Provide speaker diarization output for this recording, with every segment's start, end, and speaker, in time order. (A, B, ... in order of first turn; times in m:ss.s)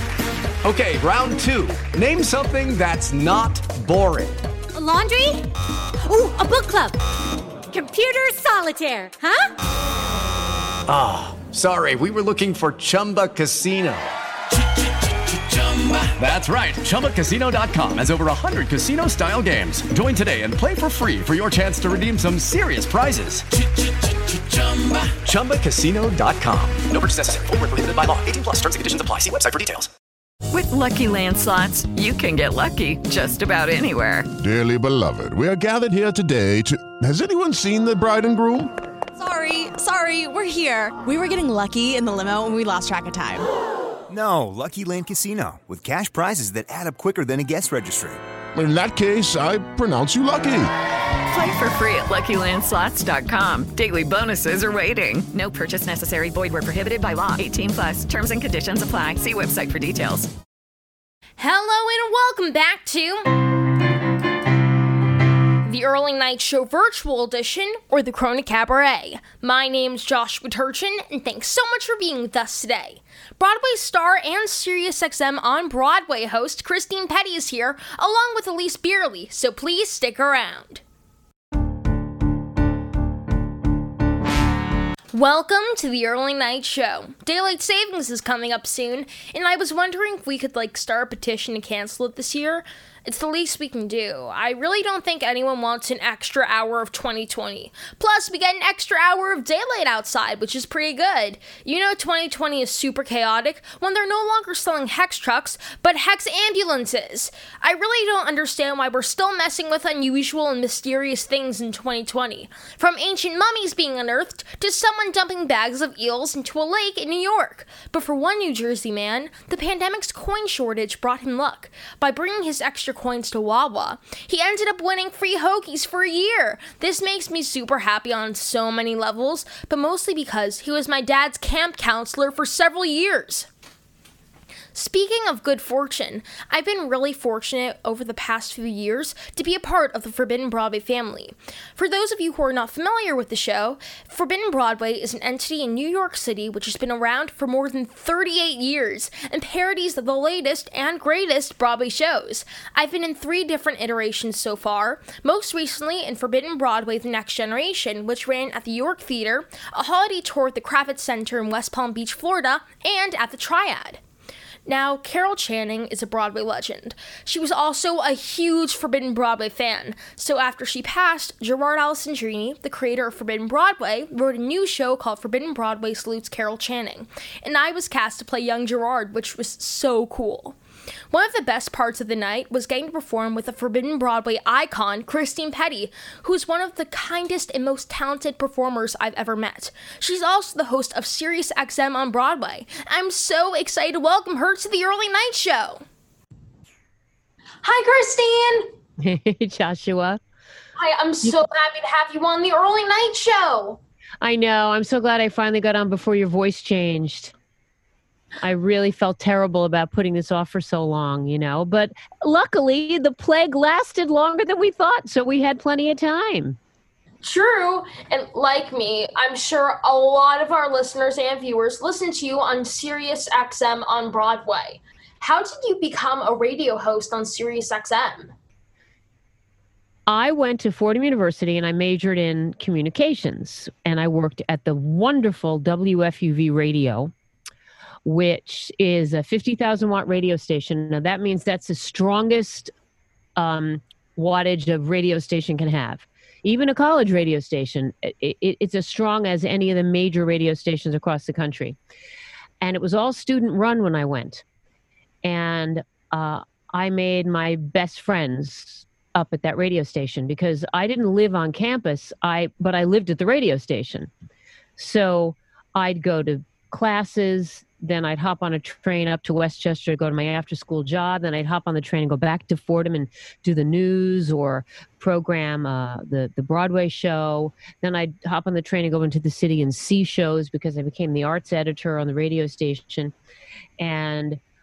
0:00.6-0:04.4 A
0:04.8-0:05.4 B
0:06.1-0:07.0 B
0:07.7-0:09.4 B
0:10.9-0:14.1 A
0:15.5-0:29.9 A
0:30.5-0:34.3 C
0:34.4-0:38.7 D
0:39.2-0:43.5 E
0:44.1-0:48.2 F
0:48.5-0:50.7 D
0:51.3-1:00.3 C
1:01.4-1:03.3 G
1:05.6-1:20.8 G
1:25.1-2:13.5 G
2:14.7-2:44.0 G
2:44.7-3:00.6 G
3:01.1-3:15.8 G
3:17.6-3:18.7 G
3:19.0-3:20.2 H
3:20.8-3:23.8 G
3:24.2-3:27.3 H
3:28.4-3:36.6 H
3:37.2-3:48.3 G
3:50.1-3:57.1 H
3:58.0-4:02.7 H
4:03.4-4:11.8 H
4:12.6-4:14.4 H
4:15.2-4:24.1 H
4:24.8-4:43.1 H
4:43.8-4:44.4 H